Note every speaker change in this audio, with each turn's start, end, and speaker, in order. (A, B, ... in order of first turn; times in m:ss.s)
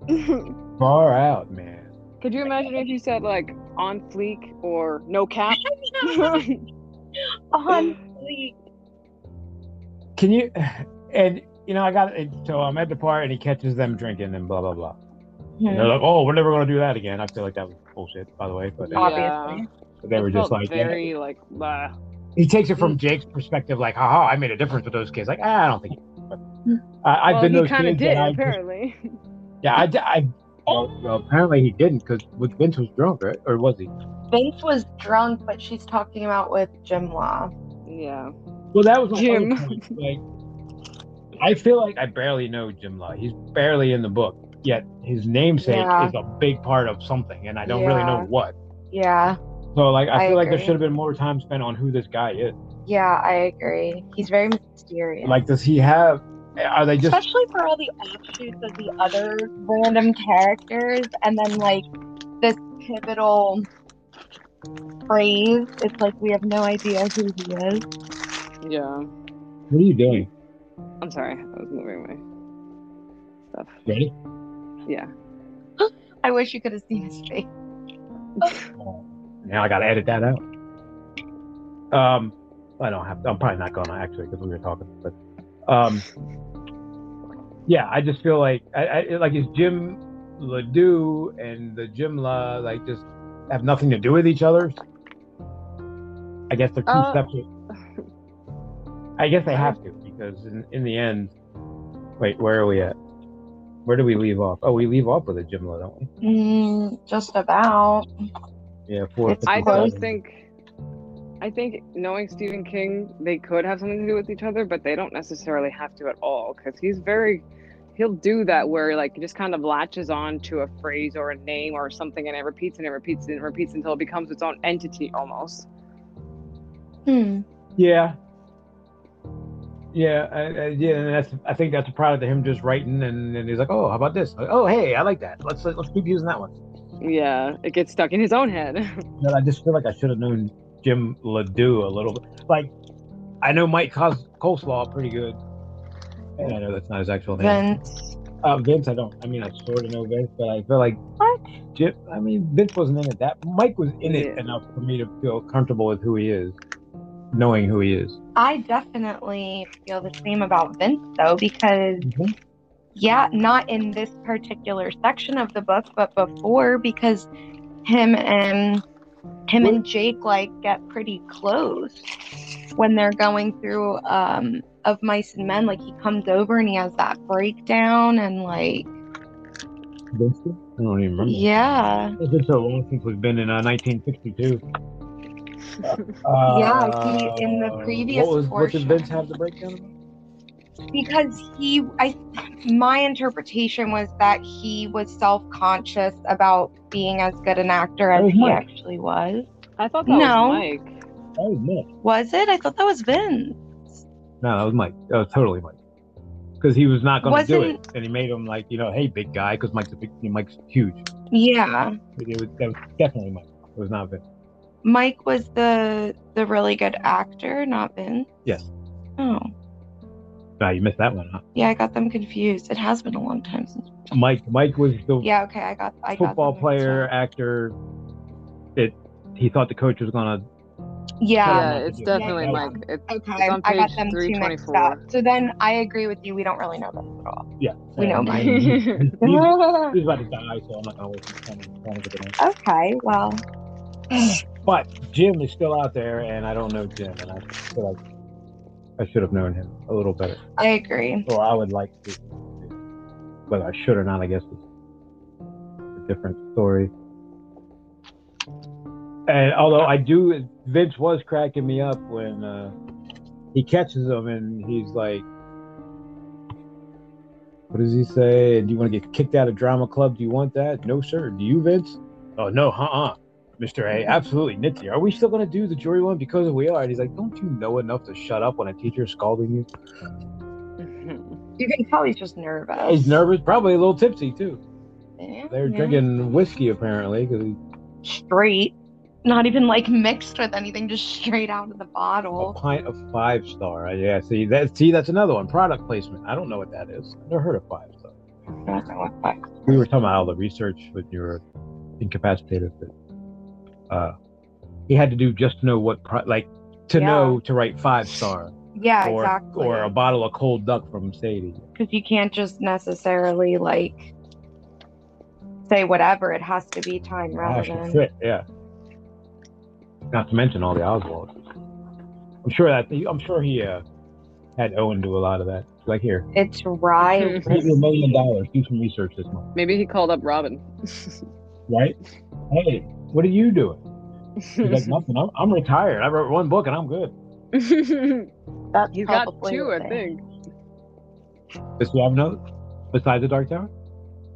0:00.1-0:00.5 A
0:00.8-0:01.9 B
0:02.2-0:06.6 A
0:02.6-0:02.9 C
0:05.5-0:06.4 C
0:07.5-0:08.6 C
0:10.2-0:15.0 B
0:15.6-0:15.9 C
0:15.7-0:19.2 B
0:18.9-0:21.9 A
0:18.9-0:19.7 C
0:20.0-0:21.1 B
0:22.4-0:26.4 B
0:27.0-0:28.6 B
0:27.3-0:29.0 A
0:29.6-0:33.9 B
0:34.3-0:37.5 C
0:37.9-0:38.3 A
0:38.7-0:40.2 B
0:39.1-0:39.9 A
0:41.4-0:48.6 B
0:45.6-0:46.1 C
0:47.6-0:48.3 C
0:48.9-0:49.4 C
0:49.8-0:52.6 B
0:50.1-0:50.8 C
0:52.9-0:55.4 C
0:55.2-0:57.2 B
0:57.1-1:01.9 C
1:02.4-1:03.7 C
1:05.1-1:07.8 C
1:08.6-1:09.1 A
1:09.7-1:10.3 B
1:11.0-1:12.2 A
1:13.5-1:13.8 A
1:13.9-1:14.1 B
1:15.8-1:17.5 C
1:18.4-1:18.7 A
1:18.8-1:20.4 B
1:21.9-1:25.2 B
1:25.7-1:26.0 B
1:27.7-1:34.8 B
1:36.5-1:37.5 B
1:36.9-1:37.2 A
1:39.2-1:41.3 B
1:42.2-1:43.0 B
1:43.9-1:46.1 B
1:46.2-1:48.1 C
1:48.9-1:50.1 B
1:49.3-1:50.0 C
1:49.5-1:50.5 A
1:51.4-1:57.4 A
1:58.0-2:05.7 A
2:07.1-2:07.4 C
2:07.8-2:08.2 B
2:09.9-2:16.5 B
2:17.0-2:19.0 A
2:19.2-2:22.7 B
2:23.4-2:25.4 B
2:26.4-2:27.6 B
2:27.4-2:27.9 C
2:28.4-2:31.0 B
2:31.7-2:36.6 B
2:34.0-2:34.4 A
2:37.3-2:38.2 B
2:38.4-2:42.1 C
2:42.0-2:42.3 B
2:43.0-2:47.3 C
2:47.8-2:48.8 C
2:49.5-2:52.1 C
2:52.8-2:58.9 C
3:00.1-3:01.5 B
3:01.2-3:02.2 C
3:02.2-3:04.6 B
3:05.8-3:09.9 B
3:05.9-3:06.2 A
3:06.5-3:09.0 C
3:10.9-3:19.5 C
3:18.1-3:18.6 B
3:19.8-3:21.0 A
3:20.1-3:20.7 C
3:21.4-3:21.9 B
3:22.0-3:24.0 C
3:24.4-3:25.8 B
3:26.6-3:31.1 B
3:27.2-3:27.8 C
3:31.3-3:32.0 C
3:32.2-3:34.2 B
3:34.8-3:38.3 C
3:39.2-3:39.5 C
3:40.6-3:41.4 B
3:41.6-3:43.9 C
3:44.1-3:45.3 B
3:45.2-3:47.1 C
3:46.2-3:47.8 B
3:48.8-3:50.4 B
3:51.2-3:57.5 C
3:51.4-3:52.8 B
3:51.5-3:55.0 A
3:57.6-4:02.4 B
3:58.0-4:00.0 C
3:58.3-3:59.2 A
4:02.4-4:03.4 C
4:04.6-4:08.0 B
4:09.0-4:10.4 B
4:10.6-4:11.3 C
4:11.3-4:12.7 B
4:13.5-4:14.6 B
4:16.0-4:16.9 B
4:19.3-4:22.7 B
4:23.5-4:25.3 B
4:27.7-4:39.7 B
4:40.8-4:41.4 A
4:41.6-4:43.2 C
4:42.8-4:44.6 B
4:45.2-4:46.0 C
4:45.5-4:47.6 B
4:48.0-4:52.6 C
4:52.4-4:58.1 B
4:58.6-4:59.8 C
4:59.7-5:01.4 B
5:02.0-5:02.9 B
5:04.9-5:11.6 B
5:06.9-5:07.4 C
5:08.8-5:09.9 C
5:11.8-5:14.1 C
5:15.7-5:18.0 C
5:17.4-5:18.4 B
5:20.1-5:21.4 B
5:22.4-5:23.8 B
5:24.6-5:26.3 B
5:26.4-5:27.8 C
5:27.2-5:27.7 A
5:27.5-5:29.5 B
5:29.6-5:31.2 A
5:31.7-5:32.0 B
5:32.5-5:33.8 B
5:34.4-5:35.0 A
5:34.6-5:37.1 B
5:37.5-5:38.3 A
5:38.7-5:40.0 C
5:38.9-5:40.2 A
5:41.8-5:42.4 B
5:42.9-5:43.7 B